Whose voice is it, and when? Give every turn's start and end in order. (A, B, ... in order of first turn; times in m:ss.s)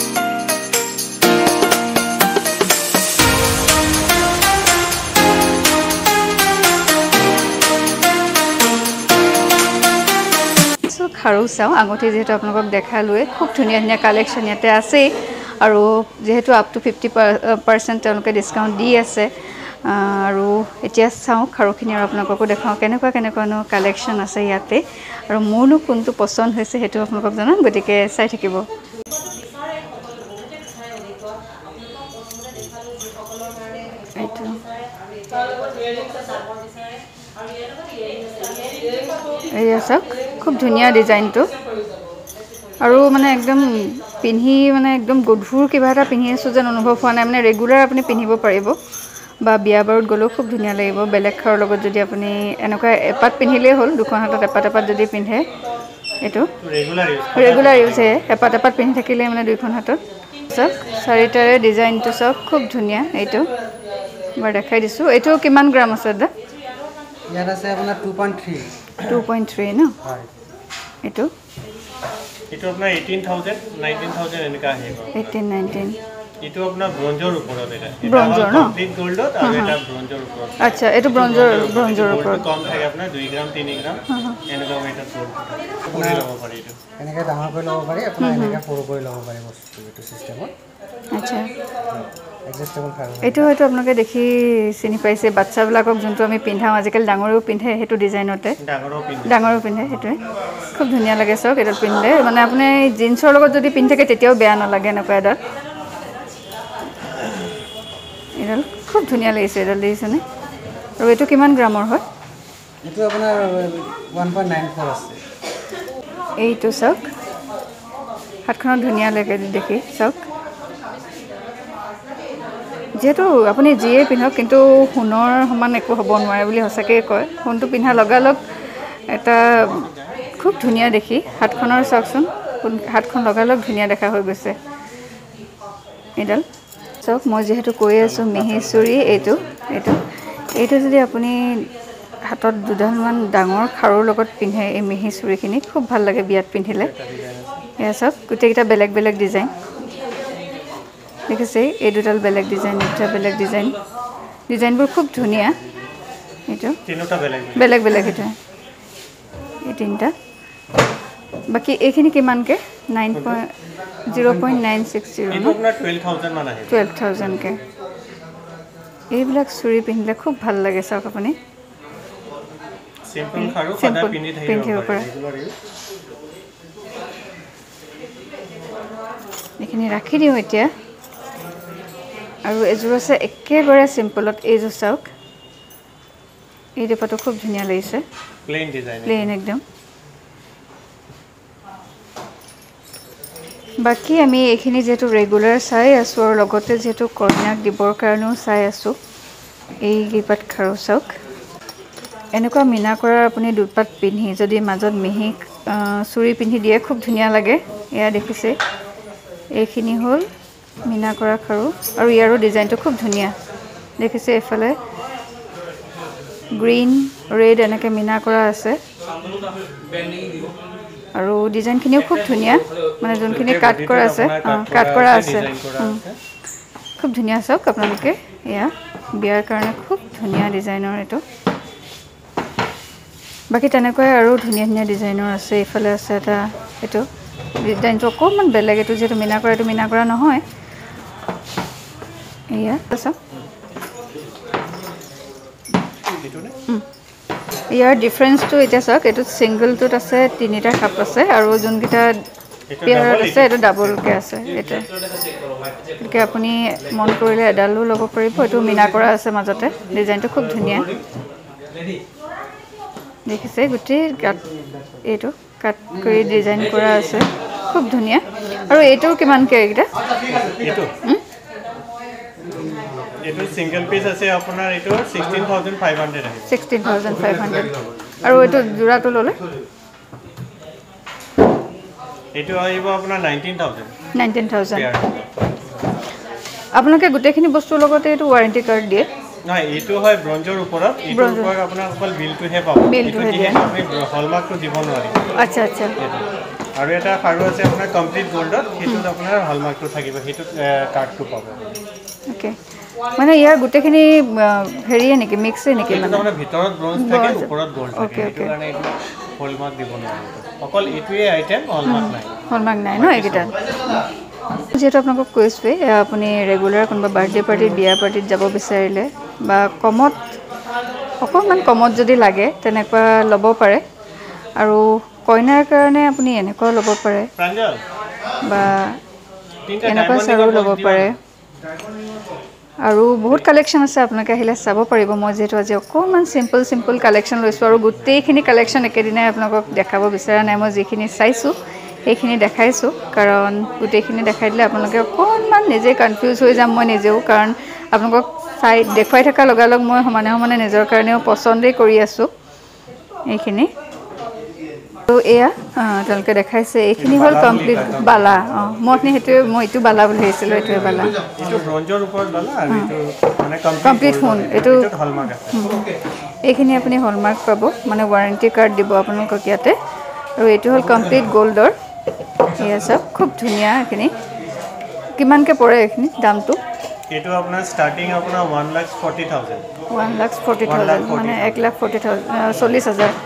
0:10.9-0:28.6 A
0:34.2-0:34.6 A
0:39.5-0:41.5 A
0:42.8-0:48.8 A
0:49.4-0:55.5 A
0:56.2-0:56.5 A
0:56.6-0:58.5 B
0:57.4-1:03.5 A
1:04.4-1:06.3 A
1:07.3-1:08.9 C
1:09.0-1:10.0 A
1:11.0-1:11.3 A
1:12.5-1:15.4 B
1:15.1-1:16.0 A
1:16.4-1:26.8 B
1:18.0-1:18.8 A
1:19.4-1:19.8 A
1:20.6-1:22.4 A
1:24.1-1:24.4 A
1:25.9-1:26.3 C
1:27.0-1:30.5 C
1:28.2-1:28.6 A
1:31.1-1:31.5 A
1:32.5-1:33.5 C
1:33.2-1:38.6 A
1:38.6-1:40.0 B
1:39.3-1:40.2 A
1:40.8-1:45.4 A
1:48.4-1:50.2 A
1:51.0-1:52.0 A
1:52.8-1:55.2 C
1:56.4-1:57.1 A
1:58.5-2:00.2 A
2:03.0-2:08.4 A
2:09.1-2:09.8 A
2:09.6-2:11.9 B
2:10.4-2:14.6 A
2:16.2-2:16.4 A
2:17.0-2:20.0 A
2:18.0-2:19.6 B
2:20.6-2:21.7 A
2:22.2-2:26.9 A
2:26.7-2:27.6 B
2:27.8-2:29.5 A
2:31.3-2:33.8 A
2:34.5-2:35.6 A
2:36.5-2:36.8 A
2:36.8-2:37.8 B
2:37.6-2:38.4 A
2:39.7-2:40.1 A
2:41.5-2:43.5 A
2:43.1-2:43.4 B
2:44.1-2:45.6 A
2:44.1-2:44.6 C
2:45.3-2:47.0 B
2:46.7-2:47.6 A
2:49.1-2:51.4 A
2:53.1-2:55.5 B
2:53.4-2:55.1 A
2:59.6-3:00.7 A
3:02.5-3:05.1 A
3:06.8-3:08.0 A
3:08.5-3:09.3 B
3:09.0-3:09.6 A
3:13.8-3:19.0 A
3:19.8-3:21.1 A
3:22.3-3:28.6 A
3:29.5-3:30.3 A
3:30.9-3:33.4 A
3:34.0-3:34.8 A
3:36.6-3:38.8 A
3:41.2-3:46.0 A
3:43.3-3:46.2 B
3:47.0-3:51.2 A
3:53.5-3:57.1 A
3:57.6-4:00.4 A
4:02.5-4:03.2 A
4:06.1-4:06.6 B
4:07.7-4:12.1 A
4:12.7-4:14.0 B
4:12.8-4:14.9 A
4:16.0-4:21.0 A
4:23.3-4:24.4 A
4:25.0-4:29.9 A
4:30.3-4:30.9 B
4:33.2-4:36.5 B
4:36.5-4:39.4 A
4:42.3-4:43.9 B
4:44.2-4:44.9 A
4:44.7-4:45.2 B
4:46.8-4:49.1 A
4:49.5-4:55.2 B
4:51.1-4:51.5 A
4:52.9-4:53.7 A
4:55.4-4:56.0 A
4:56.0-4:56.2 B
4:56.8-5:01.8 B
5:02.3-5:02.6 A
5:03.2-5:06.3 A
5:05.9-5:12.4 B
5:07.0-5:08.5 A
5:11.8-5:14.0 A
5:12.9-5:13.6 B
5:14.7-5:20.4 A
5:21.2-5:23.8 A
5:24.6-5:27.3 A
5:27.4-5:27.8 B
5:28.4-5:29.0 A
5:29.7-5:31.1 B
5:29.8-5:31.2 A
5:32.8-5:52.3 A
5:53.3-5:53.7 A
5:55.1-6:01.2 A
5:57.0-5:58.8 B
6:01.3-6:05.7 B
6:03.8-6:04.9 A
6:05.5-6:05.8 A
6:06.5-6:09.8 A
6:10.4-6:11.8 A
6:12.5-6:14.1 A
6:15.2-6:16.6 A
6:17.1-6:19.6 B
6:19.9-6:23.2 A
6:20.6-6:21.7 B